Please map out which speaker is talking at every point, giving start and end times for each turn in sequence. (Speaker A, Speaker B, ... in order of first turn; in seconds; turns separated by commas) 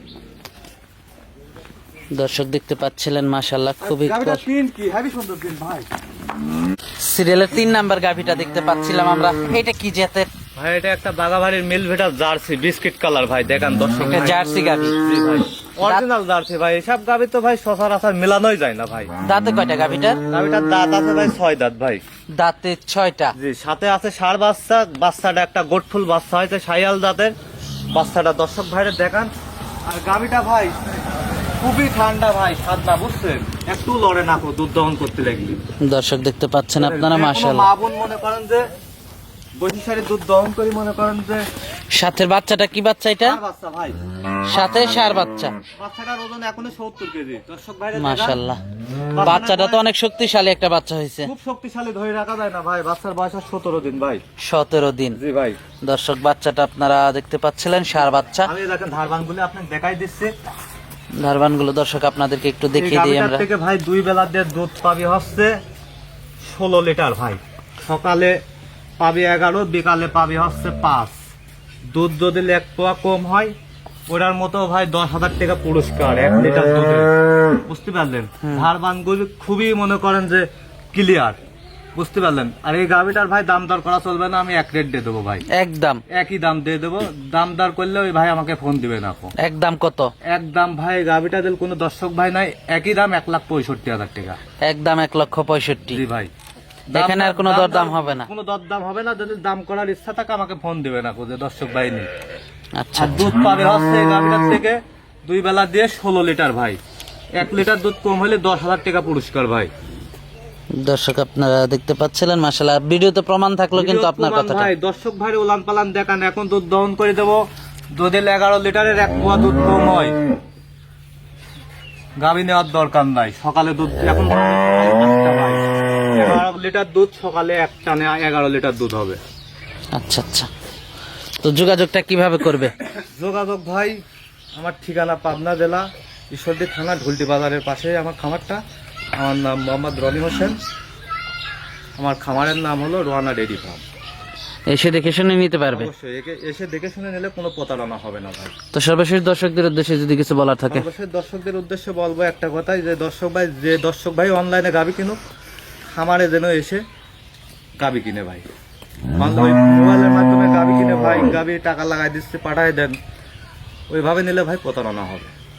Speaker A: 2.1-4.4, Speaker B: 3.8-5.9, Speaker A: 7.0-10.3, Speaker B: 10.6-14.4, Speaker A: 14.1-15.0, Speaker B: 15.0-19.1, Speaker A: 19.2-20.2, Speaker B: 20.3-22.0, Speaker A: 22.4-23.4, Speaker B: 23.4-27.3, Speaker B: 27.9-29.3, Speaker B: 29.9-31.0, Speaker B: 31.6-35.6, Speaker A: 35.8-37.7, Speaker B: 36.8-38.7, Speaker B: 39.6-41.4, Speaker A: 41.9-43.4, Speaker B: 43.2-44.0, Speaker A: 44.5-45.5, Speaker B: 45.8-48.4, Speaker A: 48.0-48.6, Speaker B: 49.1-49.8, Speaker A: 49.2-51.3, Speaker B: 51.2-54.2, Speaker A: 54.4-55.2, Speaker B: 55.2-55.6, Speaker A: 55.8-58.5, Speaker B: 58.4-60.3, Speaker A: 61.1-63.5, Speaker B: 62.8-65.6, Speaker B: 66.4-68.4, Speaker B: 69.0-71.2, Speaker B: 71.9-73.5, Speaker B: 74.1-77.1, Speaker B: 77.7-81.4, Speaker A: 78.4-78.7, Speaker B: 82.0-85.5, Speaker A: 85.5-86.0, Speaker B: 86.1-89.3, Speaker A: 89.4-90.1, Speaker B: 90.2-94.4, Speaker A: 94.6-96.0, Speaker B: 95.9-96.3, Speaker B: 96.9-102.1, Speaker A: 96.9-98.3, Speaker A: 102.8-103.4, Speaker B: 103.0-106.8, Speaker B: 107.3-109.7, Speaker A: 110.8-114.7, Speaker B: 113.8-117.4, Speaker B: 118.0-120.2, Speaker B: 122.2-129.2, Speaker A: 129.9-130.5, Speaker A: 131.4-132.7, Speaker B: 133.2-134.0, Speaker B: 134.6-138.6, Speaker B: 139.2-140.6, Speaker B: 142.0-143.8, Speaker A: 144.7-145.9, Speaker B: 145.7-148.5, Speaker A: 148.7-150.9, Speaker B: 150.7-155.2, Speaker B: 155.9-156.8, Speaker B: 157.8-158.5, Speaker B: 159.2-163.0, Speaker B: 163.9-165.3